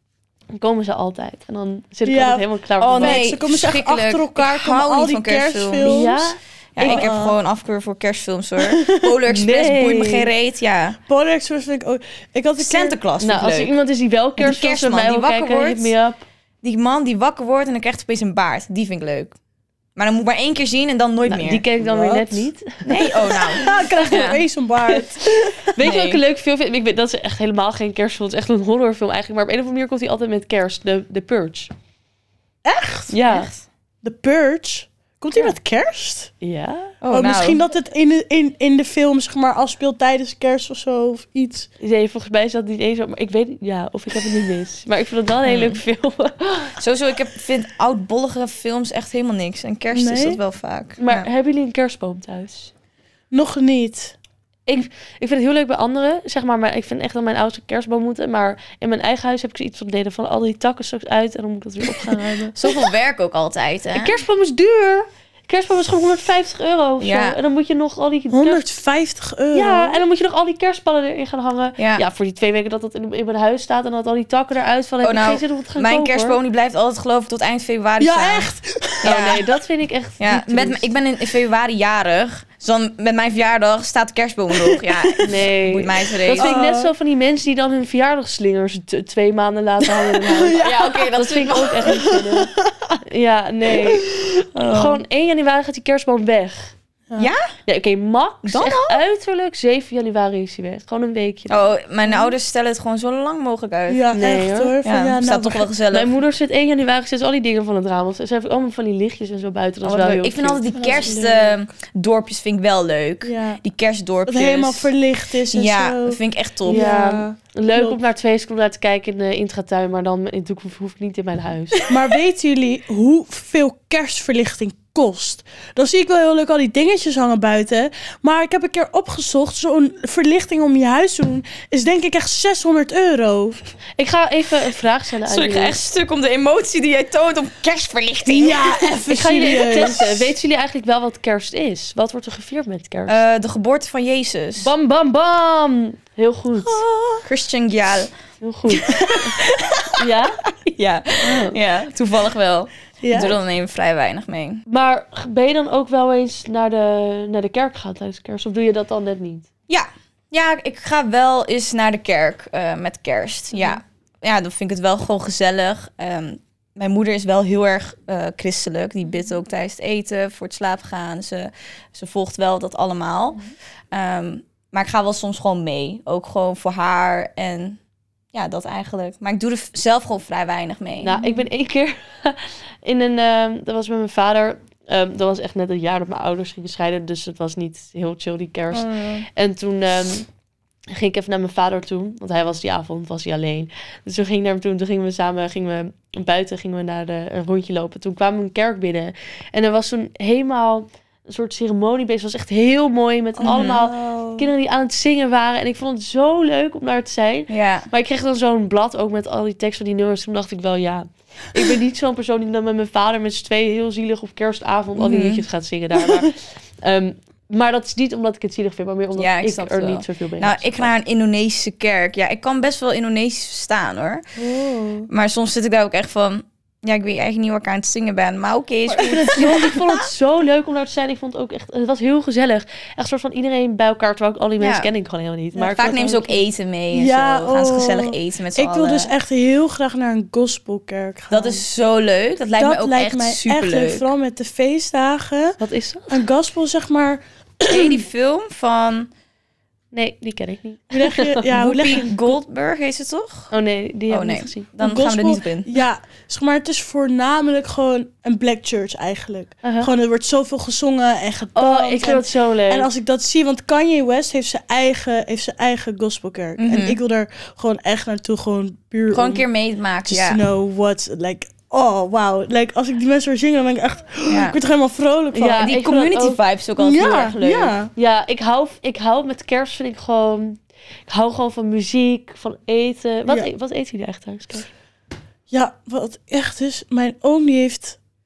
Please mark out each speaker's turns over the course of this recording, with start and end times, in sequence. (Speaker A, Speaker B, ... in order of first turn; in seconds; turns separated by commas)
Speaker A: 0.6-3.3, Speaker B: 2.0-2.4, Speaker C: 2.8-6.2, Speaker B: 3.0-6.2, Speaker A: 5.8-7.1, Speaker C: 6.8-11.0, Speaker B: 6.8-7.4, Speaker B: 8.6-9.2, Speaker A: 9.3-10.3, Speaker B: 11.1-13.0, Speaker C: 12.6-13.7, Speaker A: 13.2-16.2, Speaker C: 14.4-15.9, Speaker C: 16.6-19.4, Speaker C: 19.9-21.7, Speaker A: 21.2-23.8, Speaker B: 21.8-22.4, Speaker C: 22.8-24.4, Speaker B: 23.3-25.6, Speaker A: 24.9-31.7, Speaker C: 25.8-26.2, Speaker B: 32.6-33.1, Speaker A: 33.1-33.5, Speaker C: 33.3-33.5, Speaker B: 34.0-36.3, Speaker A: 36.4-36.9, Speaker C: 37.0-37.6, Speaker B: 37.1-41.7, Speaker A: 41.8-46.8, Speaker C: 45.4-45.8, Speaker C: 46.8-51.3, Speaker B: 49.9-50.4, Speaker A: 51.0-52.7, Speaker B: 53.3-54.1, Speaker A: 54.7-62.9, Speaker C: 62.5-64.2, Speaker A: 63.9-68.6, Speaker C: 67.0-67.4, Speaker B: 68.3-70.0, Speaker A: 69.5-76.4, Speaker C: 71.8-72.0, Speaker C: 75.0-78.5, Speaker B: 78.0-79.3, Speaker C: 79.0-79.5, Speaker A: 79.0-80.9, Speaker C: 80.2-86.5, Speaker B: 84.5-85.4, Speaker A: 85.2-92.5, Speaker B: 86.3-86.9, Speaker B: 90.3-91.0, Speaker C: 90.5-92.2, Speaker B: 91.8-93.0, Speaker A: 93.0-96.7, Speaker B: 93.8-94.4, Speaker C: 94.6-95.0, Speaker C: 97.2-97.5, Speaker A: 97.7-101.7, Speaker C: 98.4-99.0, Speaker C: 101.5-104.0, Speaker B: 103.9-105.7, Speaker A: 104.1-104.8, Speaker C: 104.8-106.1, Speaker A: 105.9-110.7, Speaker C: 109.8-114.9, Speaker B: 110.7-111.5, Speaker B: 113.2-113.6, Speaker B: 114.3-118.0, Speaker C: 115.5-116.9, Speaker A: 116.7-121.9, Speaker B: 121.9-133.6, Speaker A: 134.0-135.8, Speaker C: 135.2-138.9, Speaker B: 138.2-140.3, Speaker A: 139.1-143.2, Speaker C: 143.1-144.7, Speaker A: 144.6-146.8, Speaker B: 146.6-147.2, Speaker C: 147.2-148.1, Speaker A: 148.4-149.3, Speaker B: 148.8-149.6, Speaker C: 149.4-149.8, Speaker A: 150.0-150.5, Speaker C: 150.8-154.6, Speaker A: 151.2-151.6, Speaker B: 153.0-153.4, Speaker A: 154.7-159.4, Speaker C: 159.7-173.4, Speaker C: 173.9-177.8, Speaker C: 178.3-181.1, Speaker A: 181.0-190.3, Speaker B: 181.2-181.4, Speaker B: 188.7-189.2, Speaker A: 190.9-220.9, Speaker C: 203.4-203.8, Speaker B: 203.4-204.4, Speaker C: 207.5-207.9, Speaker C: 215.0-215.4, Speaker C: 219.2-224.2, Speaker B: 224.4-225.1, Speaker C: 225.1-230.1, Speaker B: 228.9-229.7, Speaker A: 228.9-236.4, Speaker C: 234.6-234.9, Speaker C: 235.6-239.1, Speaker B: 236.9-241.6, Speaker C: 241.3-244.1, Speaker B: 242.6-245.6, Speaker A: 245.6-246.2, Speaker B: 246.1-248.1, Speaker C: 247.7-249.1, Speaker A: 249.9-251.5, Speaker B: 250.9-252.1, Speaker C: 251.5-253.5, Speaker A: 253.5-254.7, Speaker C: 254.1-255.7, Speaker B: 254.8-269.4, Speaker A: 259.6-259.9, Speaker A: 261.6-262.9, Speaker C: 266.6-267.0, Speaker C: 269.1-270.4, Speaker B: 270.1-275.7, Speaker C: 274.3-274.6, Speaker A: 275.3-276.4, Speaker C: 275.5-277.7, Speaker B: 276.8-277.9, Speaker A: 277.9-284.7, Speaker B: 285.5-288.0